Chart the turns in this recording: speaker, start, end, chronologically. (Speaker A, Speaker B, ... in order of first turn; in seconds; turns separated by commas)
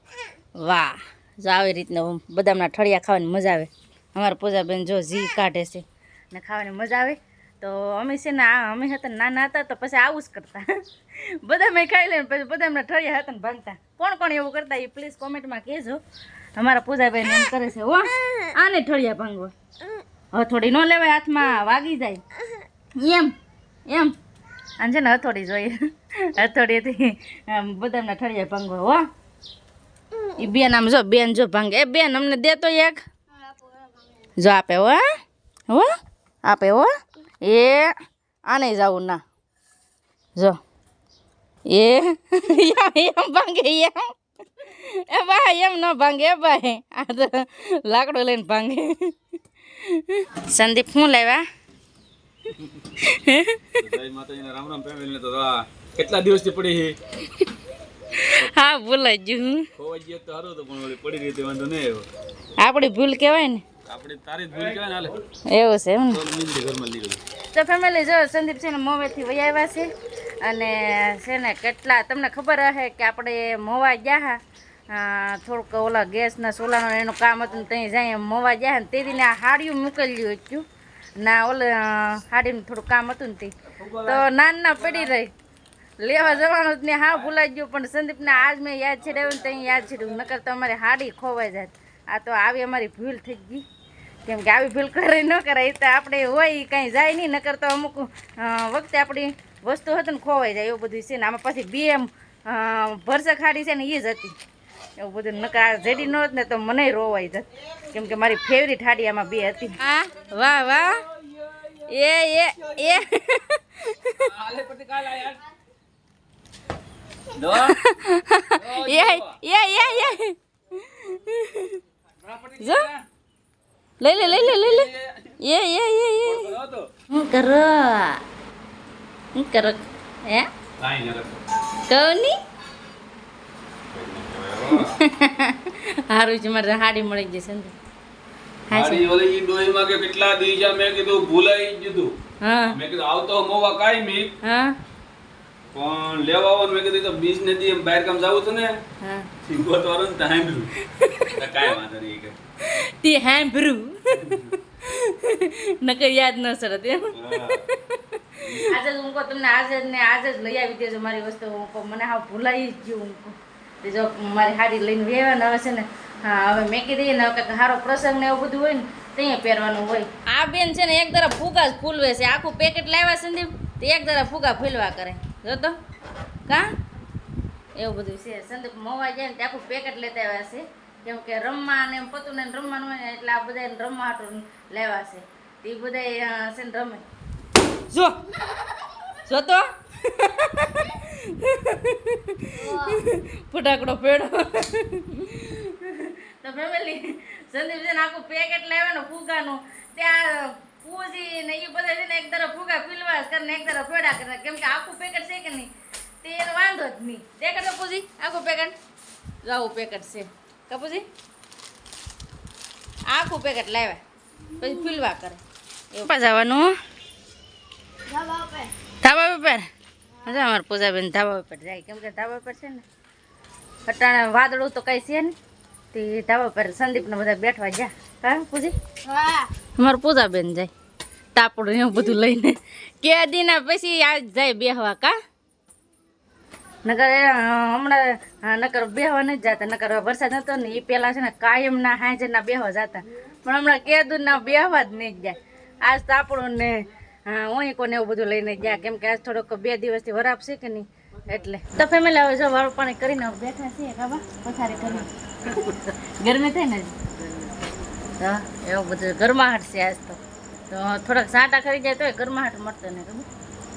Speaker A: 0.6-16.0, Speaker A: 16.6-19.5, Speaker A: 20.3-22.2, Speaker A: 22.9-23.3, Speaker A: 23.9-24.1, Speaker A: 24.8-29.0, Speaker A: 30.4-33.0, Speaker B: 33.3-34.0, Speaker A: 34.4-35.0, Speaker A: 36.4-36.9, Speaker A: 37.4-37.9, Speaker A: 38.5-39.2, Speaker A: 41.7-49.1, Speaker A: 49.7-51.4, Speaker C: 52.5-52.9, Speaker A: 53.0-53.8, Speaker C: 53.8-57.0, Speaker A: 58.1-59.7, Speaker C: 59.8-62.1, Speaker A: 62.6-63.6, Speaker C: 63.9-65.2, Speaker A: 65.5-66.2, Speaker C: 66.1-67.2, Speaker A: 67.5-69.9, Speaker A: 70.4-80.6, Speaker A: 81.2-85.3, Speaker C: 83.7-84.2, Speaker A: 86.0-93.6, Speaker A: 94.2-104.3, Speaker A: 105.0-111.0, Speaker C: 111.2-111.7, Speaker A: 111.9-114.3, Speaker C: 114.2-115.4, Speaker C: 117.3-117.8, Speaker A: 117.5-121.8, Speaker C: 118.5-119.4, Speaker C: 122.2-123.0, Speaker A: 122.6-122.9, Speaker A: 124.0-124.9, Speaker C: 124.2-125.4, Speaker A: 125.4-126.5, Speaker C: 126.2-126.9, Speaker A: 127.1-128.2, Speaker A: 129.3-130.5, Speaker C: 130.8-131.4, Speaker A: 131.9-132.3, Speaker C: 133.9-134.9, Speaker A: 134.8-137.7, Speaker A: 138.7-139.0, Speaker C: 138.7-142.1, Speaker A: 142.4-142.8, Speaker C: 142.7-144.3, Speaker A: 144.4-144.7, Speaker C: 145.7-148.8, Speaker A: 149.0-149.3, Speaker C: 149.4-150.7, Speaker A: 150.8-151.4, Speaker C: 151.3-152.4, Speaker A: 152.6-175.7, Speaker C: 154.1-154.5, Speaker C: 157.1-157.7, Speaker C: 158.4-158.8, Speaker A: 177.8-187.0, Speaker A: 187.9-188.2, Speaker A: 189.2-205.7, Speaker B: 192.5-193.0, Speaker A: 206.2-208.7, Speaker A: 209.4-211.1, Speaker A: 213.1-214.0, Speaker B: 214.6-215.0, Speaker A: 214.6-215.4, Speaker A: 215.9-216.7, Speaker B: 218.1-218.7, Speaker A: 219.0-219.6, Speaker A: 220.2-222.8, Speaker A: 223.9-225.3, Speaker A: 225.9-228.7, Speaker B: 229.1-229.5, Speaker A: 229.8-230.7, Speaker A: 231.3-235.1, Speaker A: 236.8-257.0, Speaker A: 258.2-263.3